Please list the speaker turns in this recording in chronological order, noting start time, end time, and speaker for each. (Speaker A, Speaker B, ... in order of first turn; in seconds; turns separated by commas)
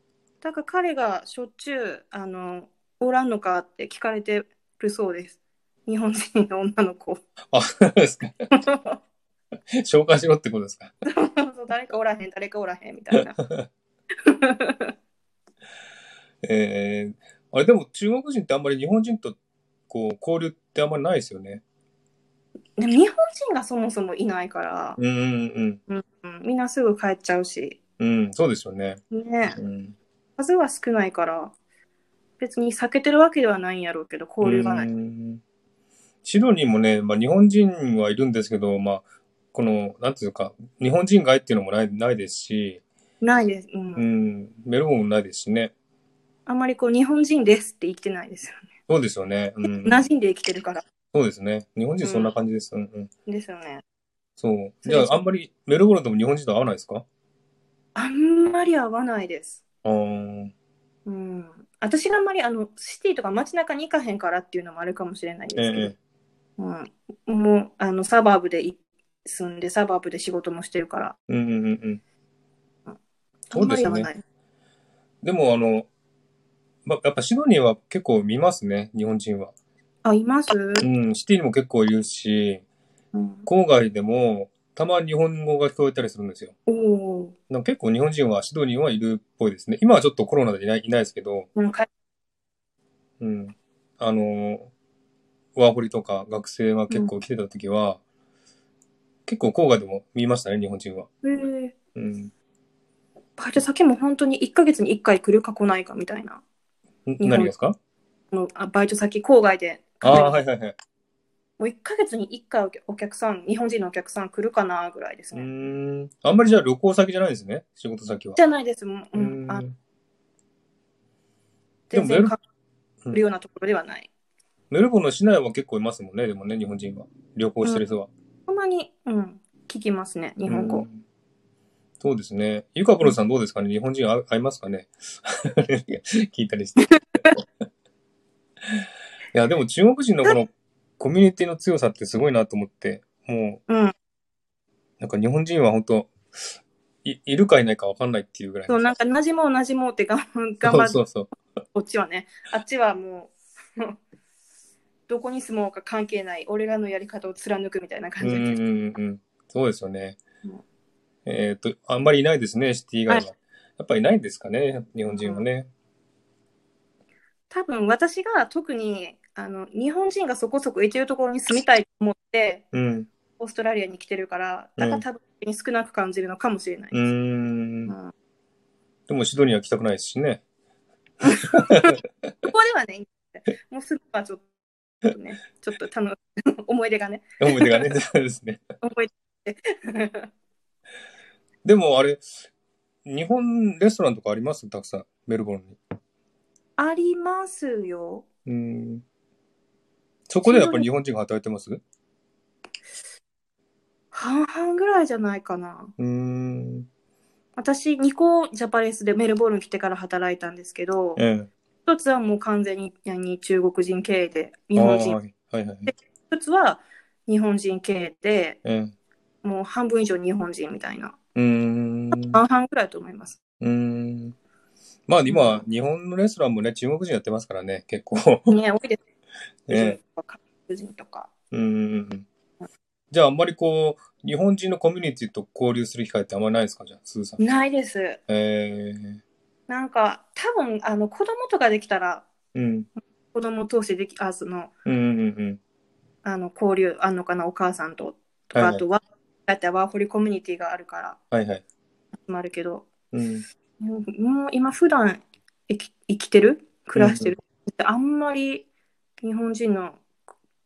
Speaker A: 0.4-7.2, Speaker B: 7.5-8.3, Speaker A: 8.5-9.0, Speaker B: 9.8-10.9, Speaker A: 11.0-13.4, Speaker B: 13.4-13.7, Speaker A: 14.2-14.9, Speaker B: 16.4-19.4, Speaker B: 19.9-21.6, Speaker A: 22.8-25.0, Speaker B: 25.0-25.8, Speaker A: 25.9-27.8, Speaker B: 28.0-29.0, Speaker A: 29.1-29.6, Speaker B: 29.5-29.9, Speaker A: 30.4-31.5, Speaker A: 32.4-34.9, Speaker B: 34.4-35.4, Speaker B: 36.2-42.8, Speaker A: 43.2-44.0, Speaker B: 43.9-45.7, Speaker A: 46.5-48.6, Speaker B: 48.9-50.0, Speaker A: 49.6-50.8, Speaker B: 51.1-53.1, Speaker A: 52.0-52.3, Speaker A: 53.3-53.8, Speaker B: 54.4-57.0, Speaker A: 54.8-55.2, Speaker A: 57.9-59.6, Speaker B: 59.8-60.5, Speaker A: 61.0-65.9, Speaker B: 65.5-65.9, Speaker A: 66.6-71.2, Speaker B: 71.3-72.0, Speaker A: 73.5-74.2, Speaker B: 73.5-74.1, Speaker B: 75.2-75.9, Speaker B: 76.8-79.5, Speaker A: 80.0-80.9, Speaker B: 80.8-82.6, Speaker A: 83.1-83.5, Speaker B: 83.5-86.5, Speaker A: 86.7-87.3, Speaker B: 87.5-91.5, Speaker A: 91.5-91.9, Speaker B: 93.2-94.7, Speaker B: 95.5-98.0, Speaker B: 99.3-101.1, Speaker A: 101.2-101.7, Speaker B: 101.9-102.3, Speaker A: 103.4-106.4, Speaker B: 107.0-107.8, Speaker A: 107.2-107.5, Speaker A: 108.3-110.4, Speaker B: 110.0-110.8, Speaker A: 111.6-115.5, Speaker B: 115.3-118.4, Speaker A: 118.3-119.6, Speaker B: 119.1-119.8, Speaker A: 121.9-122.4, Speaker B: 121.9-122.3, Speaker A: 123.1-124.1, Speaker B: 124.7-128.1, Speaker A: 128.5-130.9, Speaker B: 130.5-131.0, Speaker B: 132.0-137.4, Speaker A: 136.9-137.3, Speaker B: 139.3-143.6, Speaker A: 143.7-143.9, Speaker B: 145.0-148.9, Speaker A: 148.7-151.0, Speaker B: 150.6-151.3, Speaker A: 151.7-153.9, Speaker A: 155.1-158.6, Speaker B: 158.2-160.2, Speaker B: 161.2-165.7, Speaker A: 165.1-165.4, Speaker A: 167.5-172.6, Speaker B: 172.7-173.1, Speaker A: 173.4-177.1, Speaker B: 174.8-175.0, Speaker B: 176.9-177.9, Speaker B: 179.1-180.4, Speaker A: 181.2-184.4, Speaker B: 181.5-182.0, Speaker A: 185.0-187.9, Speaker B: 187.4-188.6, Speaker A: 188.8-190.3, Speaker B: 191.6-192.3, Speaker B: 193.0-195.8, Speaker A: 196.8-198.2, Speaker B: 198.4-199.0, Speaker B: 200.3-201.8, Speaker A: 200.4-200.9, Speaker A: 204.1-205.9, Speaker B: 206.0-206.9, Speaker A: 207.6-211.2, Speaker B: 211.2-211.5, Speaker A: 211.8-215.2, Speaker B: 214.7-215.9, Speaker A: 215.8-218.6, Speaker B: 218.6-218.9, Speaker A: 219.4-221.2, Speaker B: 221.3-222.4, Speaker A: 222.1-223.4, Speaker B: 223.6-224.3, Speaker B: 225.1-228.5, Speaker A: 225.3-225.6, Speaker A: 228.5-229.0, Speaker B: 229.7-230.0, Speaker A: 229.7-231.3, Speaker B: 231.5-232.2, Speaker B: 233.1-237.4, Speaker A: 237.4-238.2, Speaker B: 238.3-239.2, Speaker A: 239.7-242.3, Speaker B: 242.5-242.9, Speaker A: 243.3-244.7, Speaker B: 244.8-245.6, Speaker A: 246.2-251.2, Speaker B: 248.5-248.8, Speaker B: 251.3-251.6, Speaker A: 252.3-252.9, Speaker B: 253.1-253.4, Speaker A: 253.8-258.6, Speaker B: 256.9-257.3, Speaker A: 259.2-260.0